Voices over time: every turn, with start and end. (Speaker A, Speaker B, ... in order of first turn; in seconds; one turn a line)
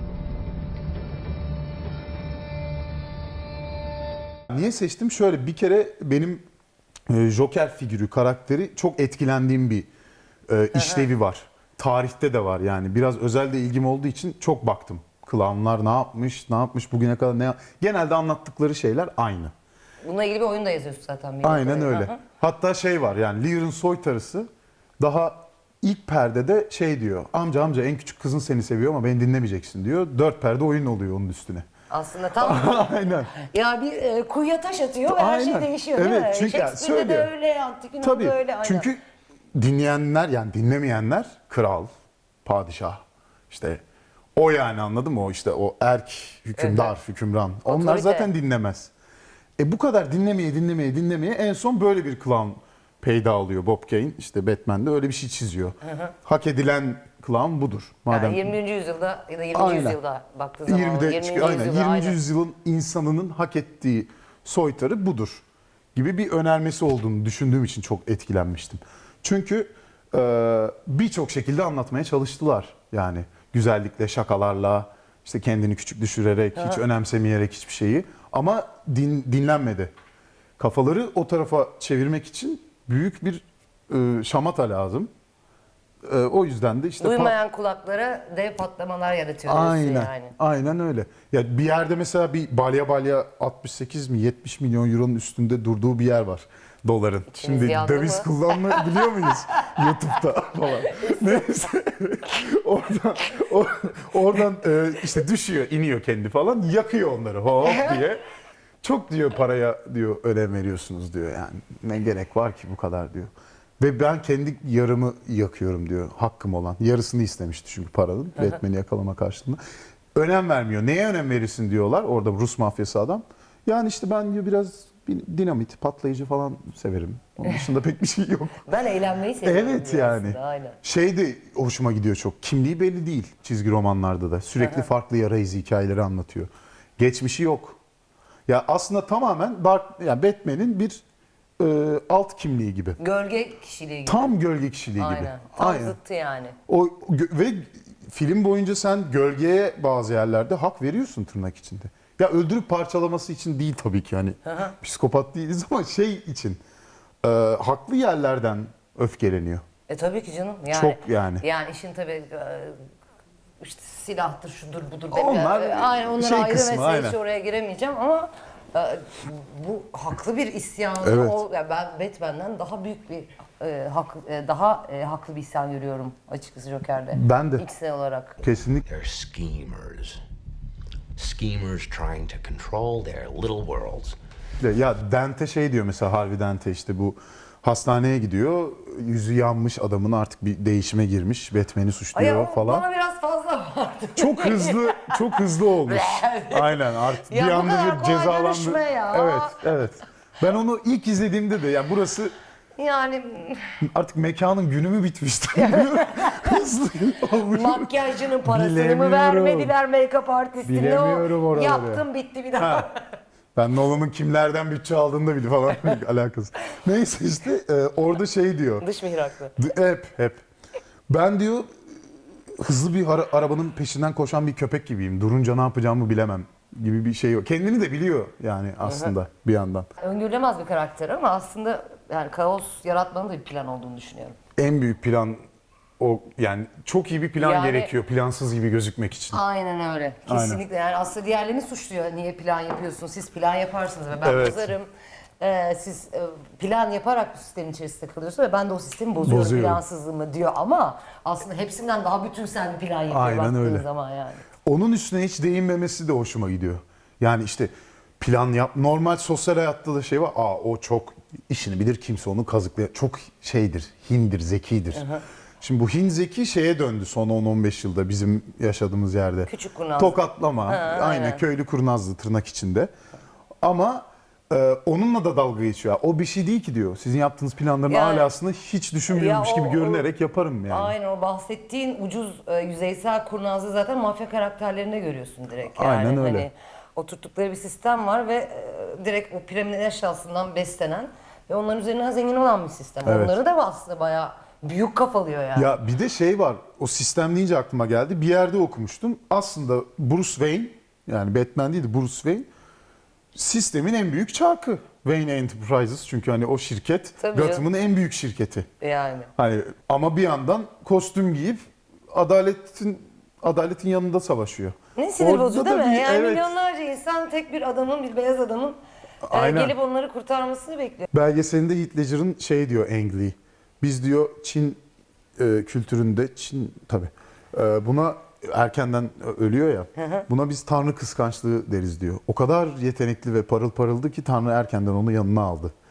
Speaker A: 4.5-6.5
Speaker A: 7.1-9.9
Speaker A: 10.5-19.5
Speaker B: 10.8-11.1
Speaker B: 20.0-22.2
Speaker A: 21.4-31.7
Speaker B: 31.9-38.9
Speaker A: 32.4-33.3
Speaker A: 35.1-37.3
Speaker A: 38.0-39.0
Speaker A: 39.5-41.9
Speaker A: 42.5-43.8
Speaker A: 44.4-48.9
Speaker B: 46.6-46.9
Speaker B: 47.7-48.3
Speaker A: 49.6-58.5
Speaker B: 55.9-56.1
Speaker B: 58.1-62.2
Speaker A: 59.5-60.0
Speaker A: 60.7-65.4
Speaker A: 65.9-79.9
Speaker A: 80.6-85.1
Speaker A: 86.0-87.3
Speaker B: 87.0-90.3
Speaker A: 89.5-108.2
Speaker B: 97.3-99.9
Speaker B: 100.9-101.4
Speaker B: 107.7-108.0
Speaker A: 108.8-119.6
Speaker A: 120.2-128.7
Speaker B: 128.7-130.8
Speaker A: 129.4-137.8
Speaker B: 134.6-134.9
Speaker A: 138.5-141.0
Speaker A: 141.6-143.0
Speaker B: 143.0-144.4
Speaker A: 144.1-146.0
Speaker B: 145.0-146.6
Speaker A: 146.7-156.6
Speaker B: 154.5-154.7
Speaker A: 157.2-159.6
Speaker B: 159.9-162.8
Speaker A: 160.7-161.4
Speaker B: 163.6-178.4
Speaker A: 165.1-167.2
Speaker A: 171.0-171.4
Speaker A: 177.1-177.7
Speaker A: 178.4-178.8
Speaker C: 178.8-180.2
Speaker C: 181.2-184.2
Speaker A: 184.6-192.8
Speaker B: 192.1-199.6
Speaker A: 194.2-202.3
Speaker B: 202.8-203.8
Speaker A: 203.8-207.9
Speaker B: 205.5-206.6
Speaker B: 207.5-213.2
Speaker A: 208.4-209.7
Speaker A: 210.7-212.0
Speaker A: 212.6-212.9
Speaker A: 213.6-218.9
Speaker B: 218.8-219.6
Speaker A: 219.6-220.4
Speaker A: 221.1-221.7
Speaker A: 222.5-229.9
Speaker B: 228.8-229.1
Speaker B: 230.0-234.4
Speaker A: 234.6-235.4
Speaker A: 236.0-239.4
Speaker B: 237.4-237.9
Speaker B: 239.3-244.9
Speaker A: 240.3-240.6
Speaker A: 244.2-244.7
Speaker B: 245.4-254.4
Speaker A: 249.2-249.8
Speaker A: 253.1-253.9
Speaker A: 254.7-265.1
Speaker B: 264.9-265.2
Speaker A: 265.6-272.9
Speaker B: 269.5-271.4
Speaker A: 273.6-280.9
Speaker B: 277.9-278.3
Speaker B: 279.1-280.1
Speaker B: 280.7-295.7
Speaker A: 285.8-286.5
Speaker A: 293.1-293.4
Speaker A: 295.6-302.5
Speaker A: 303.3-308.7
Speaker B: 307.2-307.6
Speaker B: 308.8-309.3
Speaker A: 309.4-316.5
Speaker B: 315.0-321.1
Speaker A: 319.2-319.8
Speaker A: 321.1-324.8
Speaker A: 325.4-335.7
Speaker B: 330.0-330.2